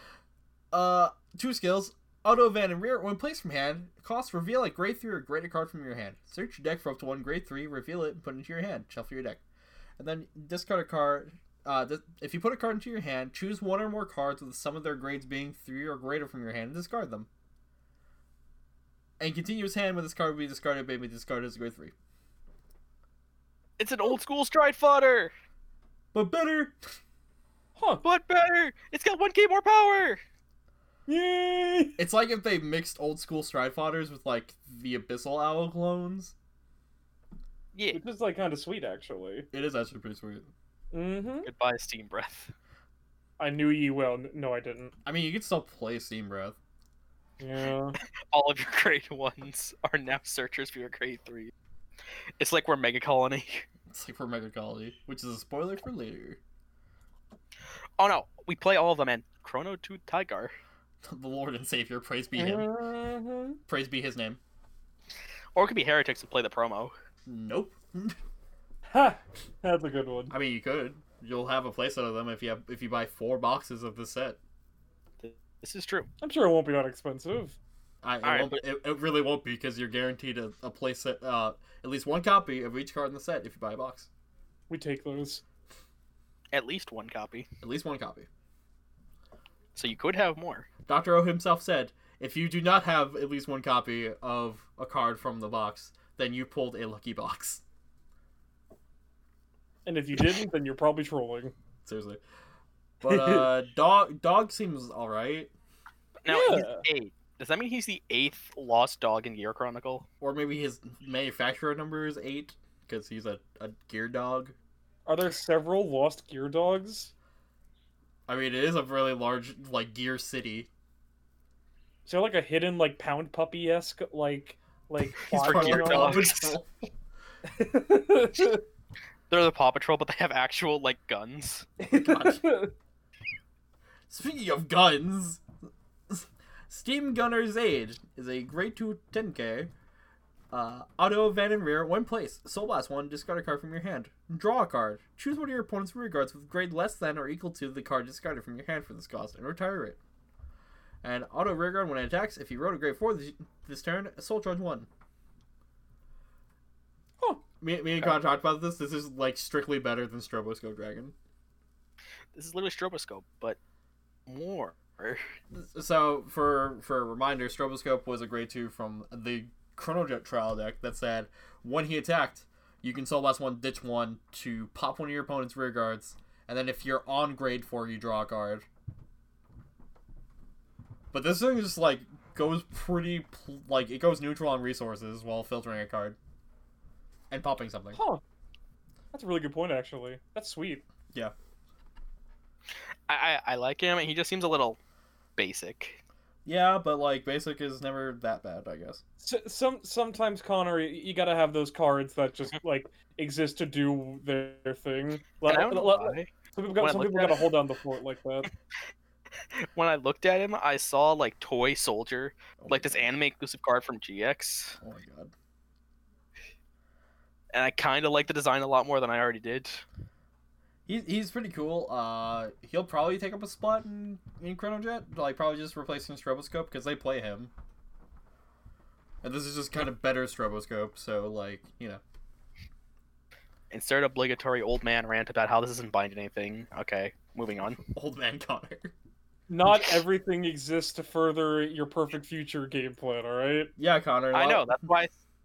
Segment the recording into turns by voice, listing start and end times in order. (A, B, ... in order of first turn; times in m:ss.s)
0:00.7-0:09.4 A
0:10.0-0:17.3 A
0:19.2-0:21.9 A
0:23.8-0:25.3 B
0:26.1-0:26.8 A
0:27.8-0:28.0 C
0:28.0-0:30.2 B
0:31.1-0:32.0 C
0:32.0-0:36.3 A
0:37.7-0:38.0 B
0:37.9-0:39.5 C
0:39.5-0:40.5 A
0:40.9-0:41.5 C
0:41.4-0:42.5 B
0:43.4-0:44.9 C
0:45.0-0:46.6 A
0:47.4-0:48.0 C
0:48.3-0:51.5 B
0:52.4-0:53.7 B
0:53.9-0:56.4 A
0:58.0-1:00.5 B
1:01.0-1:02.7 A
1:02.3-1:03.6 C
1:03.7-1:04.4 A
1:05.5-1:06.9 B
1:07.2-1:08.2 A
1:08.9-1:10.3 C
1:10.3-1:14.4 A
1:15.2-1:16.1 B
1:16.2-1:17.6 C
1:18.0-1:24.1 A
1:18.2-1:18.6 B
1:24.7-1:25.4 C
1:26.5-1:27.5 B
1:27.6-1:28.3 A
1:29.7-1:30.7 B
1:30.9-1:37.6 A
1:39.8-1:41.5 C
1:41.8-1:42.2 A
1:43.0-1:45.5 A
1:43.0-1:43.5 C
1:46.2-1:50.1 B
1:46.3-1:46.8 C
1:50.2-1:54.5 A
1:55.0-1:57.1 C
1:58.3-2:00.7 A
2:02.0-2:06.3 C
2:05.2-2:06.6 B
2:05.2-2:06.9 A
2:07.5-2:08.6 C
2:09.3-2:11.7 B
2:11.8-2:12.7 C
2:11.9-2:12.4 A
2:14.1-2:15.4 A
2:16.1-2:19.7 A
2:20.5-2:30.0 A
2:31.0-2:34.9 A
2:37.6-2:41.1 A
2:42.3-2:43.6 B
2:44.3-2:45.2 B
2:45.5-2:58.6 A
3:01.1-3:06.2 A
3:07.3-3:08.0 A
3:07.9-3:08.2 C
3:09.1-3:10.8 C
3:13.1-3:14.8 B
3:15.4-3:16.0 B
3:16.4-3:19.0 A
3:19.2-3:28.5 C
3:25.4-3:27.5 B
3:29.5-3:34.8 B
3:32.6-3:33.1 A
3:34.8-3:35.3 A
3:37.5-3:39.8 B
3:40.9-3:47.5 A
3:49.2-3:52.0 A
3:53.7-3:57.8 B
3:57.9-3:58.9 A
3:59.5-4:03.7 C
4:03.8-4:04.8 A
4:04.3-4:05.1 B